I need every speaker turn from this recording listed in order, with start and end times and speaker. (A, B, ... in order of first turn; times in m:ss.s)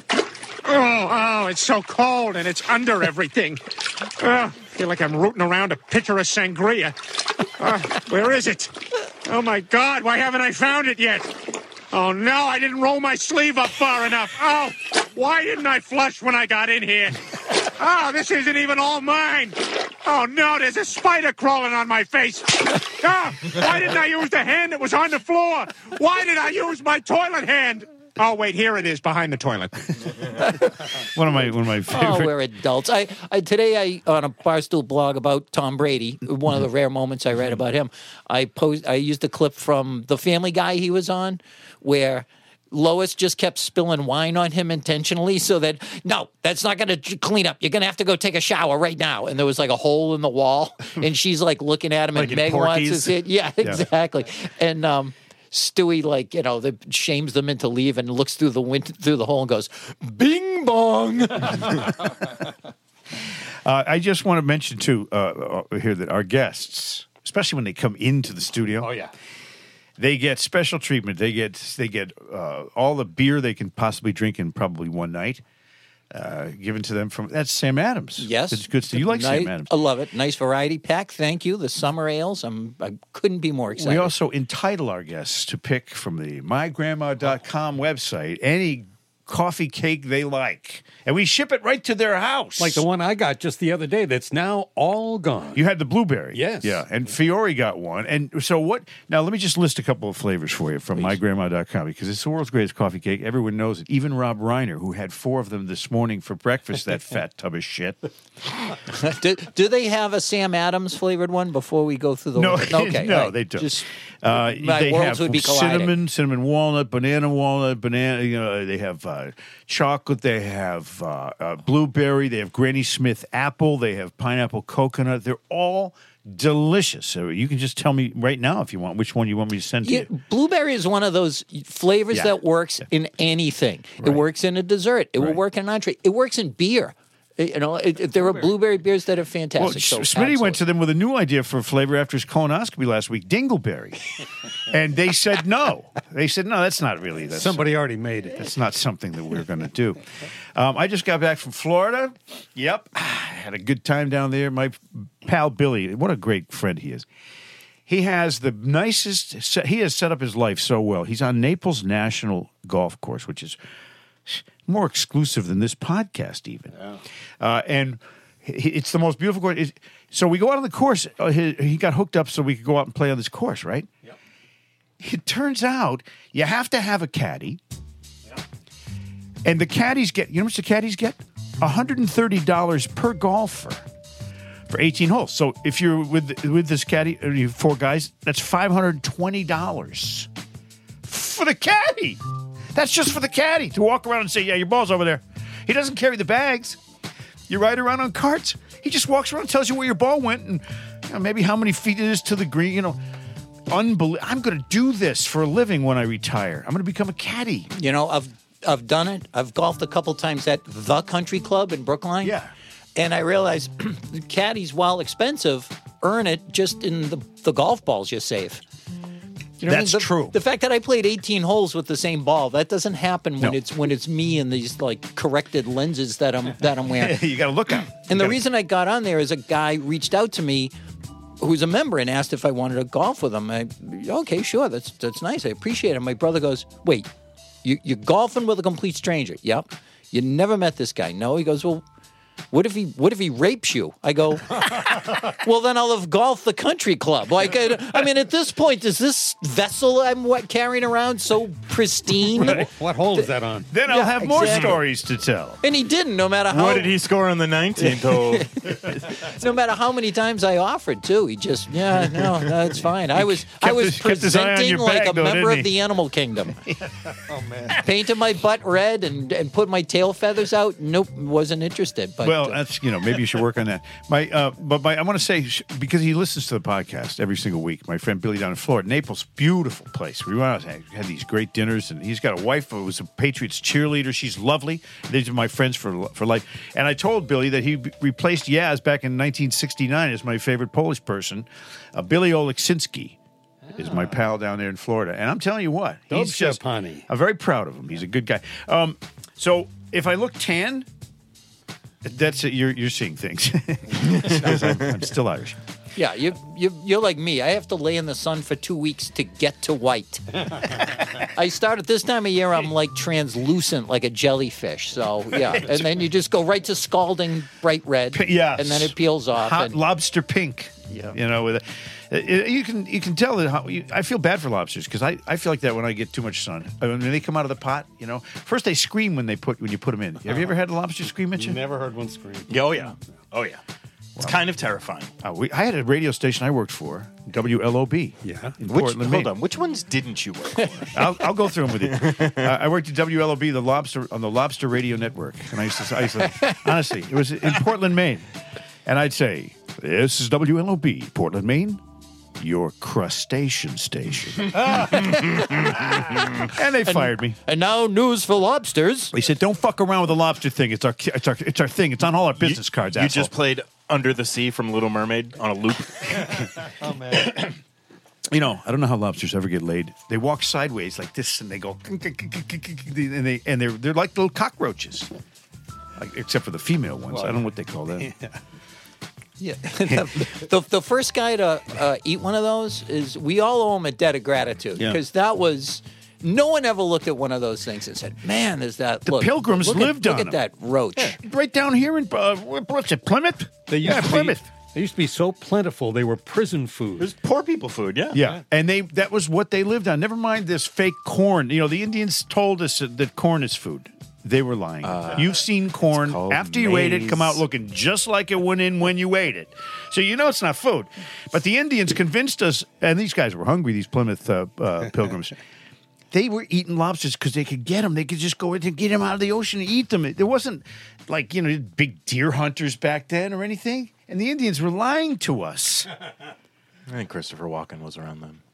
0:00.6-0:03.6 A
0:04.2-0:11.3 A
0:11.9-0:30.0 A
0:30.9-0:32.4 B
0:31.9-1:01.9 C
0:52.1-0:53.2 D
0:53.6-0:53.9 B
1:03.6-1:08.9 B
1:08.8-1:09.1 E
1:10.0-1:15.4 B
1:16.1-1:19.7 B
1:18.2-1:24.1 C
1:23.8-1:32.8 B
1:32.6-1:35.6 E
1:35.5-1:48.1 B
1:36.3-1:36.8 E
1:48.9-1:55.9 C
1:52.4-2:10.1 B
2:09.8-2:20.6 C
2:19.6-2:24.1 B
2:24.7-2:27.6 B
2:27.3-2:28.4 E
2:28.3-2:30.0 B
2:30.6-2:37.1 B
2:37.9-2:43.6 B
2:44.2-2:46.7 B
2:47.4-2:53.9 B
2:55.0-2:57.6 B
2:59.4-3:03.8 B
3:04.7-3:10.3 B
3:11.0-3:12.2 B
3:12.7-3:16.8 B
3:17.5-3:23.0 B
3:23.7-3:27.7 B
3:27.7-3:32.4 C
3:32.2-3:32.5 B
3:33.0-3:38.6 C
3:39.6-3:47.3 C
3:39.6-3:40.4 B
3:46.9-3:48.4 B
3:48.0-3:50.7 C
3:51.4-3:57.1 C
3:57.6-4:01.8 C
4:02.5-4:13.3 C
4:12.3-4:13.7 E
4:13.7-4:15.6 B
4:13.8-4:14.8 C
4:15.6-4:17.0 C
4:16.5-4:18.5 D
4:17.8-4:26.6 C
4:23.1-4:25.8 B
4:27.2-4:27.8 E
4:27.7-4:32.6 C
4:32.2-4:53.2 B
4:53.7-4:54.1 E
4:53.8-5:00.9 B
4:56.1-4:57.1 E
5:02.0-5:05.6 B
5:06.0-5:19.8 C
5:15.4-5:15.9 B
5:18.1-5:31.6 B
5:20.9-5:21.2 C
5:31.3-5:32.5 E
5:32.5-5:33.6 D
5:34.2-5:34.4 B
5:34.2-5:35.1 D
5:35.2-5:39.3 B
5:38.2-5:38.6 E
5:38.7-5:41.1 D
5:40.9-5:48.2 B
5:41.7-5:42.5 D
5:48.8-5:51.8 B
5:52.4-5:57.4 B
5:56.8-5:59.1 C
5:59.1-6:03.3 B
6:02.4-6:06.6 D
6:06.8-6:07.4 E
6:08.3-6:15.1 B
6:16.0-6:18.1 B
6:17.1-6:17.4 E
6:18.0-6:18.4 E
6:19.4-6:31.2 C
6:29.1-6:30.4 B
6:31.0-6:34.4 B
6:33.7-6:37.1 E
6:37.0-6:38.2 D
6:38.1-6:55.4 B
6:44.8-6:47.4 D
6:56.1-7:05.9 B
7:06.9-7:08.4 D